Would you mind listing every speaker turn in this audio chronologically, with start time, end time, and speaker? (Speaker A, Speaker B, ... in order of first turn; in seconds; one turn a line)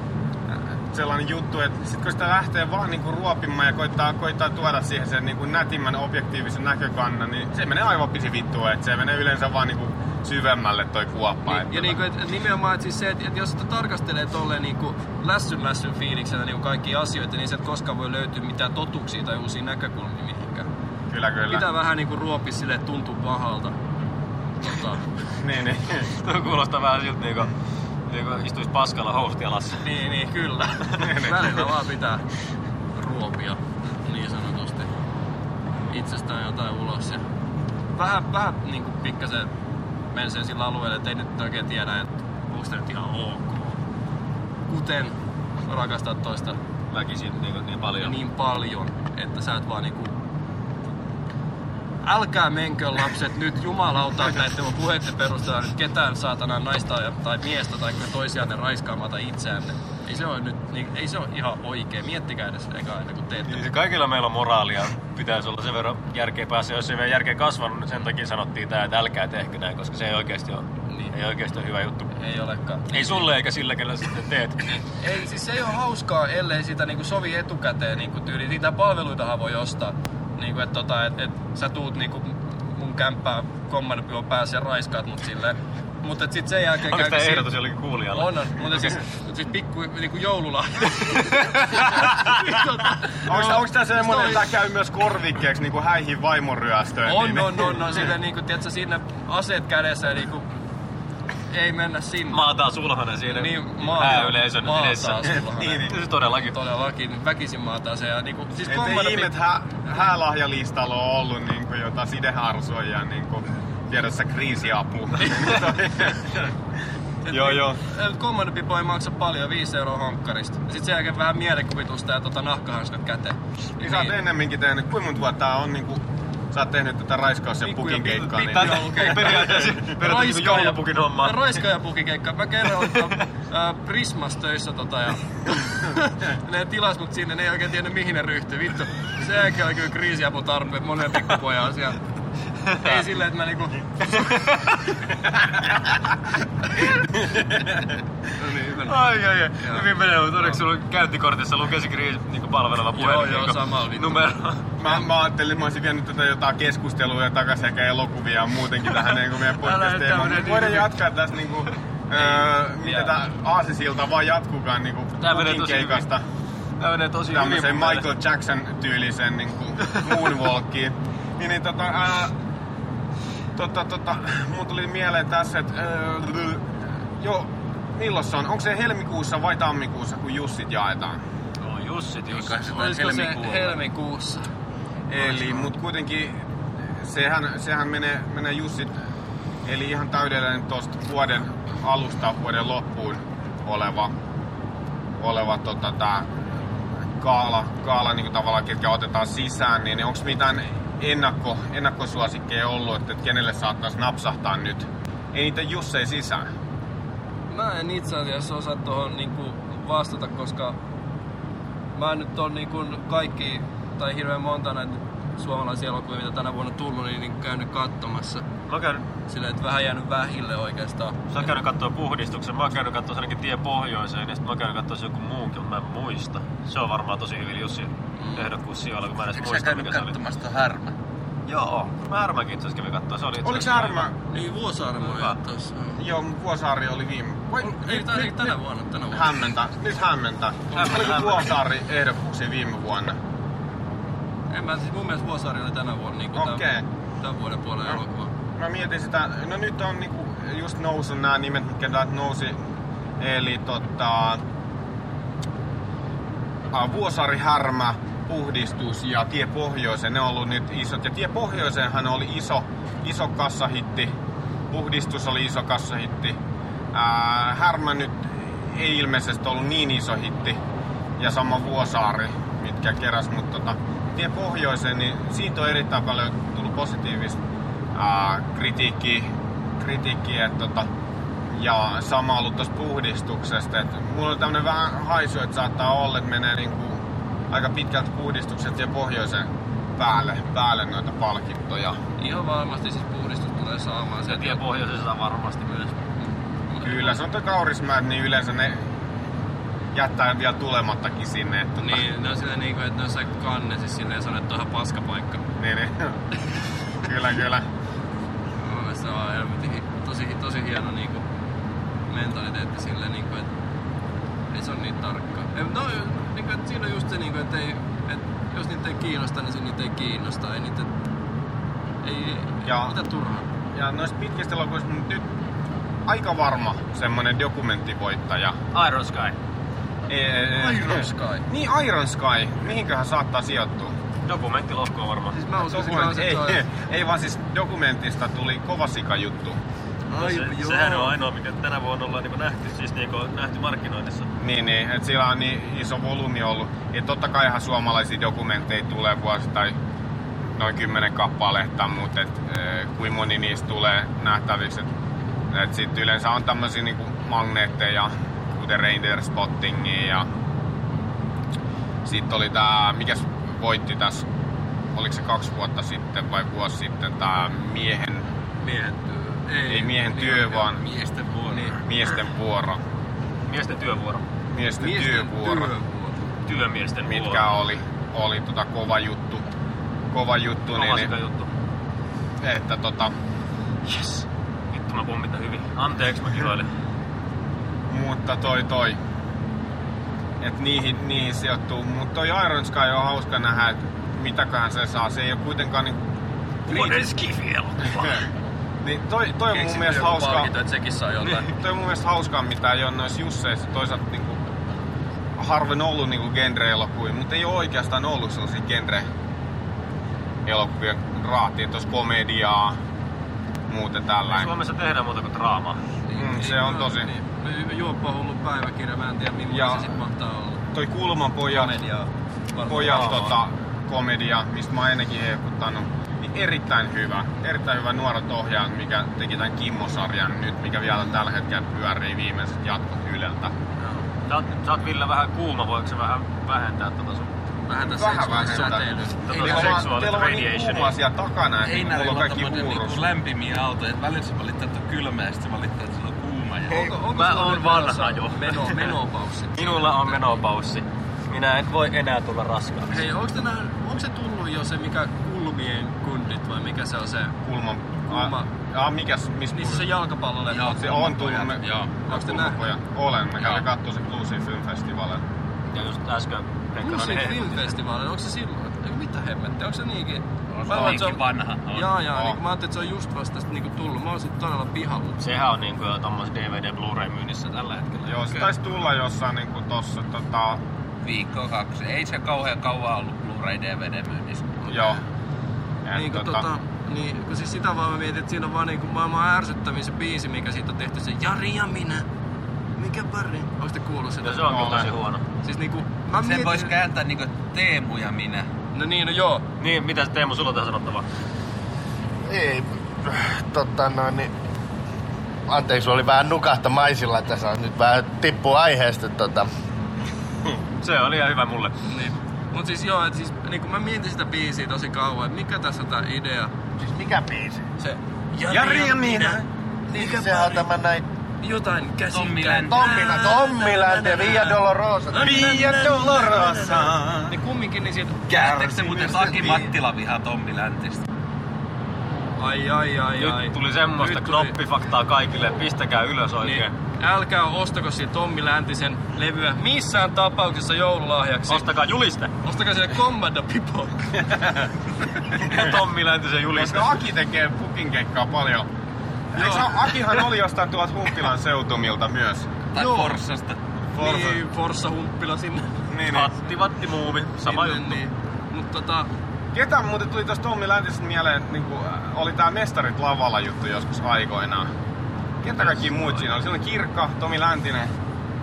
Speaker A: 0.9-11.9
Speaker B: 11.5-20.7
Speaker A: 21.1-21.7
Speaker B: 21.5-23.8
Speaker B: 24.6-25.1
Speaker A: 25.4-26.1
Speaker C: 26.1-27.5
Speaker C: 28.1-29.8
Speaker B: 29.8-32.2
Speaker A: 31.0-31.6
Speaker B: 32.9-34.9
Speaker B: 35.9-37.2
Speaker B: 37.9-39.5
Speaker B: 40.1-43.8
Speaker B: 44.7-46.6
Speaker C: 46.9-48.1
Speaker B: 48.0-50.1
Speaker B: 52.0-63.6
Speaker C: 63.5-72.1
Speaker B: 70.9-71.1
Speaker B: 72.2-73.2
Speaker C: 72.9-74.8
Speaker B: 74.9-87.5
Speaker C: 86.9-88.6
Speaker B: 88.1-94.4
Speaker C: 91.1-92.2
Speaker A: 93.2-98.0
Speaker B: 97.0-100.5
Speaker B: 101.5-102.4
Speaker C: 102.3-106.5
Speaker B: 103.3-109.3
Speaker A: 105.5-106.0
Speaker A: 108.7-116.5
Speaker B: 117.2-124.1
Speaker A: 117.3-117.8
Speaker A: 123.8-129.8
Speaker B: 127.6-142.0
Speaker C: 128.2-131.6
Speaker C: 142.6-143.0
Speaker B: 142.7-144.5
Speaker C: 144.1-144.6
Speaker A: 147.2-147.7
Speaker B: 148.3-149.1
Speaker C: 148.8-154.7
Speaker B: 149.6-150.6
Speaker B: 152.9-154.2
Speaker A: 154.8-166.2
Speaker C: 159.6-160.9
Speaker B: 162.2-163.1
Speaker C: 165.2-166.1
Speaker C: 166.8-168.1
Speaker A: 167.3-172.3
Speaker C: 170.0-170.3
Speaker A: 173.6-181.2
Speaker C: 181.6-182.7
Speaker D: 182.3-183.7
Speaker B: 182.7-184.5
Speaker A: 185.1-186.4
Speaker B: 185.2-185.7
Speaker A: 187.0-188.9
Speaker A: 189.6-194.1
Speaker A: 195.2-196.3
Speaker A: 197.2-206.5
Speaker B: 207.5-210.8
Speaker B: 211.9-218.4
Speaker C: 218.7-219.0
Speaker B: 219.2-221.5
Speaker C: 221.3-230.1
Speaker B: 228.2-228.5
Speaker D: 229.3-230.9
Speaker C: 231.5-234.1
Speaker A: 233.4-234.1
Speaker B: 234.3-236.0
Speaker C: 235.1-235.3
Speaker A: 236.0-238.5
Speaker B: 237.6-239.4
Speaker A: 239.1-243.2
Speaker C: 240.7-241.5
Speaker B: 244.5-246.6
Speaker A: 246.3-246.8
Speaker B: 247.2-248.3
Speaker A: 248.6-252.6
Speaker A: 253.2-254.4
Speaker A: 256.7-264.1
Speaker A: 264.7-266.4
Speaker A: 266.9-270.6
Speaker A: 271.2-277.4
Speaker A: 277.9-280.9
Speaker A: 281.5-292.0
Speaker B: 292.2-294.6
Speaker C: 294.3-295.9
Speaker B: 296.7-297.2
Speaker A: 296.8-298.9
Speaker A: 299.9-302.0
Speaker B: 301.8-305.4
Speaker A: 305.6-306.2
Speaker A: 307.0-307.6
Speaker B: 308.6-311.2
Speaker B: 312.1-313.5
Speaker B: 314.5-320.9
Speaker B: 322.0-323.5
Speaker A: 322.6-322.9
Speaker A: 323.7-325.3
Speaker A: 326.1-328.5
Speaker C: 328.7-329.3
Speaker A: 330.1-333.9
Speaker B: 330.5-331.5
Speaker C: 334.3-335.4
Speaker B: 335.3-336.6
Speaker A: 335.7-339.6
Speaker B: 340.1-341.2
Speaker C: 340.2-344.3
Speaker A: 344.4-349.7
Speaker A: 350.6-354.9
Speaker A: 355.5-360.3
Speaker A: 362.0-364.2
Speaker A: 364.9-368.3
Speaker B: 368.6-370.7
Speaker A: 369.7-370.8
Speaker D: 370.8-371.8
Speaker B: 371.5-371.8
Speaker A: 371.8-372.8
Speaker C: 373.5-374.2
Speaker A: 374.5-375.7
Speaker B: 374.8-376.2
Speaker C: 376.4-377.5
Speaker A: 377.0-379.4
Speaker A: 380.1-381.1
Speaker C: 380.7-381.5
Speaker A: 382.4-383.1
Speaker C: 383.9-386.7
Speaker A: 387.9-389.0
Speaker A: 390.4-396.0
Speaker A: 396.7-397.1
Speaker B: 396.7-398.2
Speaker A: 397.9-398.2
Speaker A: 398.8-400.5
Speaker B: 399.5-401.5
Speaker A: 401.3-404.5
Speaker A: 405.4-409.1
Speaker A: 410.4-412.8
Speaker A: 413.7-414.5
Speaker C: 414.3-415.8
Speaker B: 416.0-420.6
Speaker A: 416.1-417.1
Speaker A: 419.5-420.0
Speaker A: 420.7-421.7
Speaker B: 421.5-423.3
Speaker A: 422.6-433.5
Speaker C: 422.8-423.3
Speaker C: 434.2-437.3
Speaker B: 437.7-439.7
Speaker A: 437.8-443.1
Speaker C: 439.3-441.0
Speaker D: 439.3-439.8
Speaker D: 441.6-446.9
Speaker B: 446.7-450.4
Speaker C: 446.8-448.9
Speaker C: 449.6-452.9
Speaker B: 452.9-457.4
Speaker A: 457.4-459.9
Speaker B: 458.0-458.5
Speaker B: 459.5-460.9
Speaker D: 460.5-462.0
Speaker A: 460.7-465.2
Speaker B: 462.1-462.6
Speaker D: 463.4-463.6
Speaker C: 465.7-467.7
Speaker B: 466.8-475.2
Speaker D: 470.5-471.9
Speaker C: 475.2-478.1
Speaker A: 478.1-480.6
Speaker D: 481.0-484.7
Speaker B: 484.7-485.0
Speaker A: 484.7-485.0
Speaker A: 485.8-486.4
Speaker B: 485.9-492.1
Speaker B: 492.8-494.8
Speaker C: 494.2-495.2
Speaker A: 494.5-494.9
Speaker B: 495.4-496.7
Speaker D: 496.2-498.5
Speaker B: 498.7-499.4
Speaker C: 499.6-501.1
Speaker E: 502.2-504.3
Speaker E: 505.5-509.5
Speaker C: 510.8-511.7
Speaker B: 511.9-516.5
Speaker E: 516.8-517.6
Speaker B: 517.8-520.6
Speaker A: 518.5-519.5
Speaker E: 519.9-521.0
Speaker B: 521.4-524.6
Speaker D: 522.1-523.1
Speaker E: 522.6-525.5
Speaker B: 525.1-529.6
Speaker A: 525.2-527.4
Speaker D: 528.3-531.0
Speaker A: 528.9-529.6
Speaker B: 532.4-534.5
Speaker C: 533.2-536.7
Speaker B: 536.4-541.6
Speaker C: 541.5-542.4
Speaker B: 542.4-544.1
Speaker A: 544.2-544.7
Speaker C: 545.4-547.0
Speaker A: 546.5-548.7
Speaker A: 549.3-552.5
Speaker B: 549.3-549.7
Speaker D: 552.7-553.6
Speaker B: 552.7-553.2
Speaker A: 553.9-554.4
Speaker B: 554.0-555.9
Speaker A: 555.9-556.3
Speaker C: 556.1-558.0
Speaker B: 557.4-559.1
Speaker A: 559.5-564.7
Speaker A: 565.4-567.9
Speaker C: 565.6-566.2